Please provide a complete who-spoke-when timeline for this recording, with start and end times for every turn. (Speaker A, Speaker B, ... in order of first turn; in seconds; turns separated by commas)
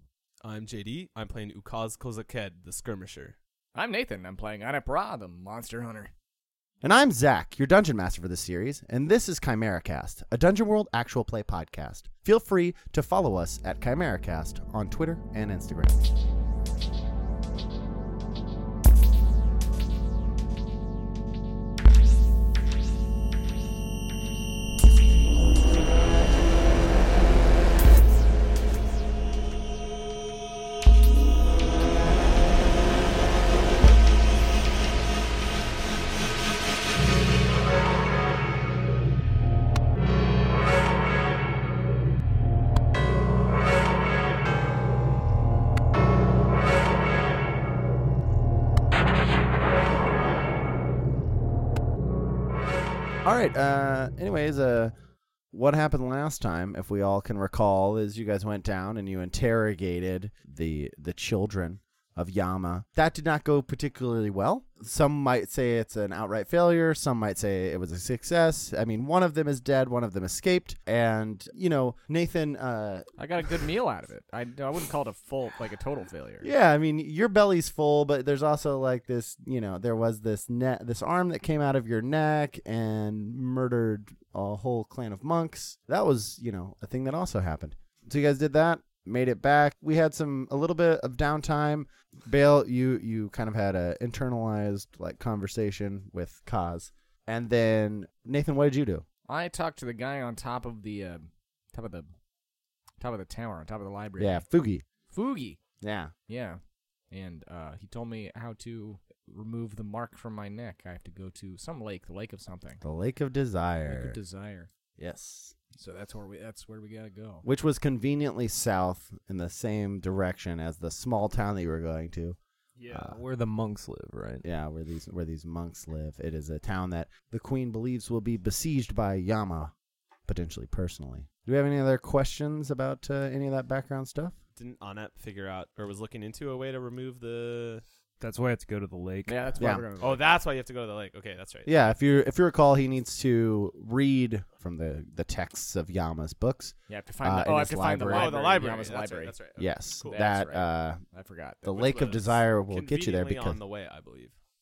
Speaker A: 0.4-3.4, Speaker B: 3.8-6.1, Speaker C: 6.8-16.1, Speaker C: 53.2-54.9, Speaker C: 55.5-73.1, Speaker B: 73.2-76.5, Speaker C: 76.4-99.0, Speaker B: 99.3-102.1, Speaker B: 103.0-104.4, Speaker C: 104.2-104.8, Speaker B: 105.1-105.6, Speaker C: 105.8-106.1, Speaker B: 106.3-112.8, Speaker C: 112.8-114.2, Speaker B: 113.8-114.7, Speaker C: 115.0-115.5, Speaker B: 115.8-117.5, Speaker C: 117.4-122.4, Speaker D: 122.8-124.5, Speaker C: 122.9-123.2, Speaker C: 124.4-129.7, Speaker C: 130.2-134.4, Speaker A: 134.6-137.8, Speaker D: 138.2-139.4, Speaker B: 139.2-140.3, Speaker C: 139.6-139.8, Speaker A: 140.0-141.7, Speaker C: 141.7-148.4, Speaker B: 146.9-149.3, Speaker A: 148.1-150.2, Speaker C: 149.6-151.0, Speaker B: 150.0-152.1, Speaker C: 151.6-153.6, Speaker A: 151.8-154.3